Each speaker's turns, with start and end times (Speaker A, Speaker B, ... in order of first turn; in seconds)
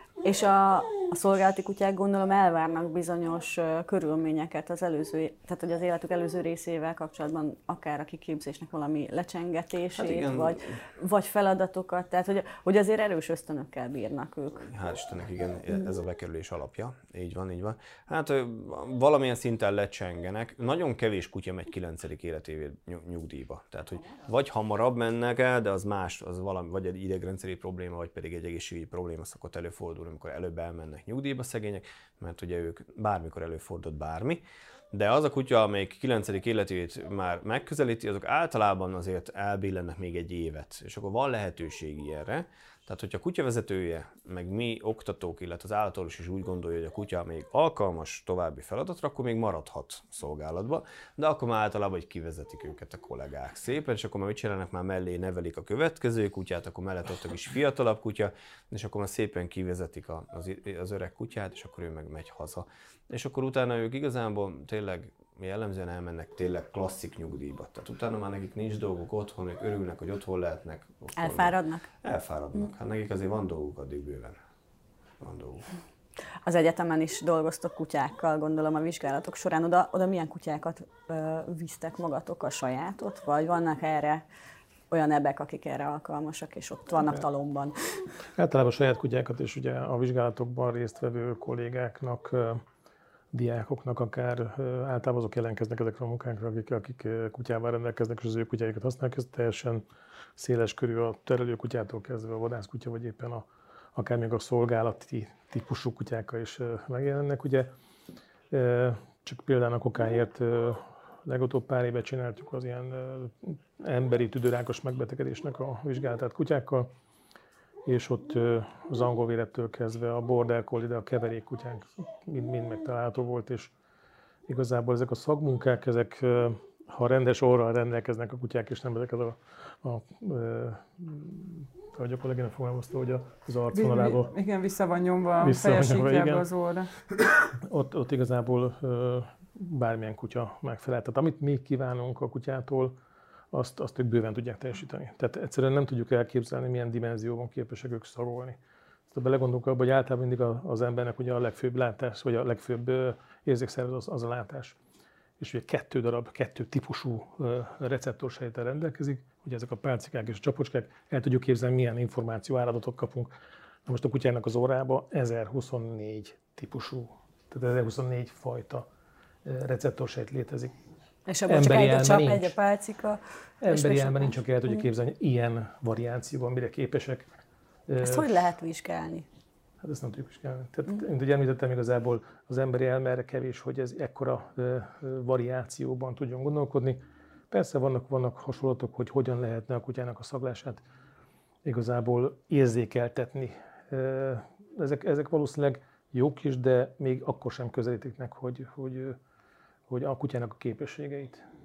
Speaker A: 0.2-14.6, 71.2-71.9, 76.4-84.2, 84.9-87.7, 171.2-174.4, 178.0-179.3
Speaker B: 9.9-10.8, 14.6-74.4, 75.2-75.7
Speaker C: 88.3-92.6, 93.3-99.8, 100.4-107.7, 108.5-116.9, 117.8-123.7, 124.5-134.3, 135.4-136.4, 137.6-142.9, 143.5-148.6, 149.1-154.8, 155.4-163.3, 163.8-168.9, 169.4-170.7, 171.5-172.6, 173.6-177.3, 177.9-178.5, 179.8-187.0, 187.5-190.8, 191.6-199.2, 199.9-201.4
Speaker D: 133.7-136.9